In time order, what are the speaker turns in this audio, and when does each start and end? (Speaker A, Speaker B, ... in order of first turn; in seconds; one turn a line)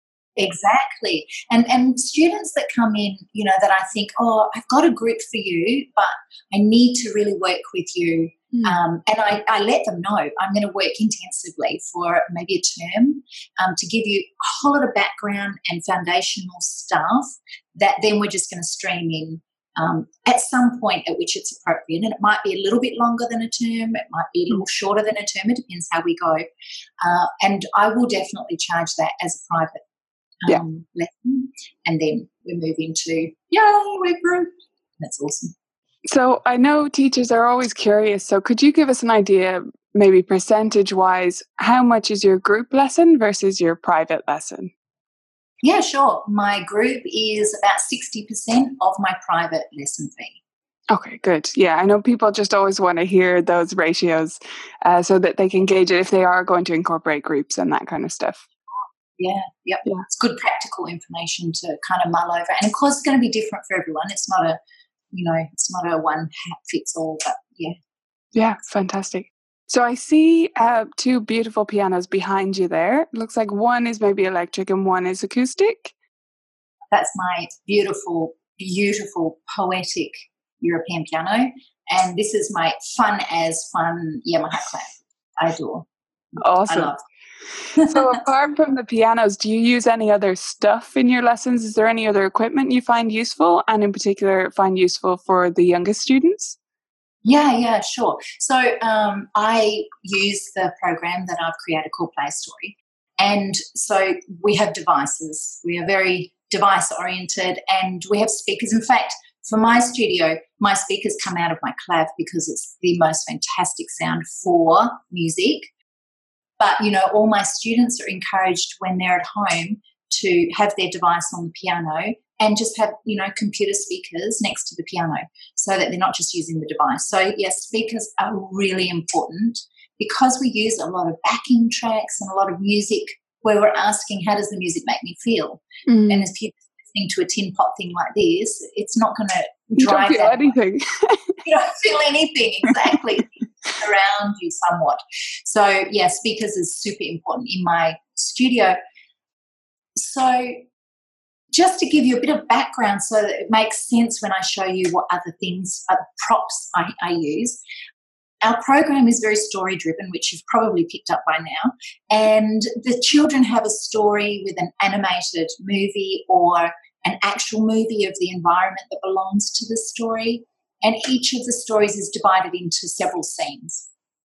Speaker A: 0.3-26.4
Speaker B: 8.5-8.8
Speaker A: 27.0-29.8
Speaker A: 30.4-35.5
Speaker B: 36.1-44.7
Speaker A: 45.6-50.4
Speaker B: 50.9-58.4
Speaker A: 59.2-64.6
Speaker A: 65.1-67.8
Speaker B: 68.3-75.9
Speaker A: 76.9-87.0
Speaker B: 86.4-86.9
Speaker A: 87.7-88.2
Speaker B: 87.8-96.6
Speaker A: 97.2-115.7
Speaker A: 116.6-140.5
Speaker B: 135.8-136.3
Speaker B: 139.7-141.3
Speaker A: 141.4-148.8
Speaker A: 149.9-150.6
Speaker A: 151.5-157.6
Speaker A: 158.4-173.9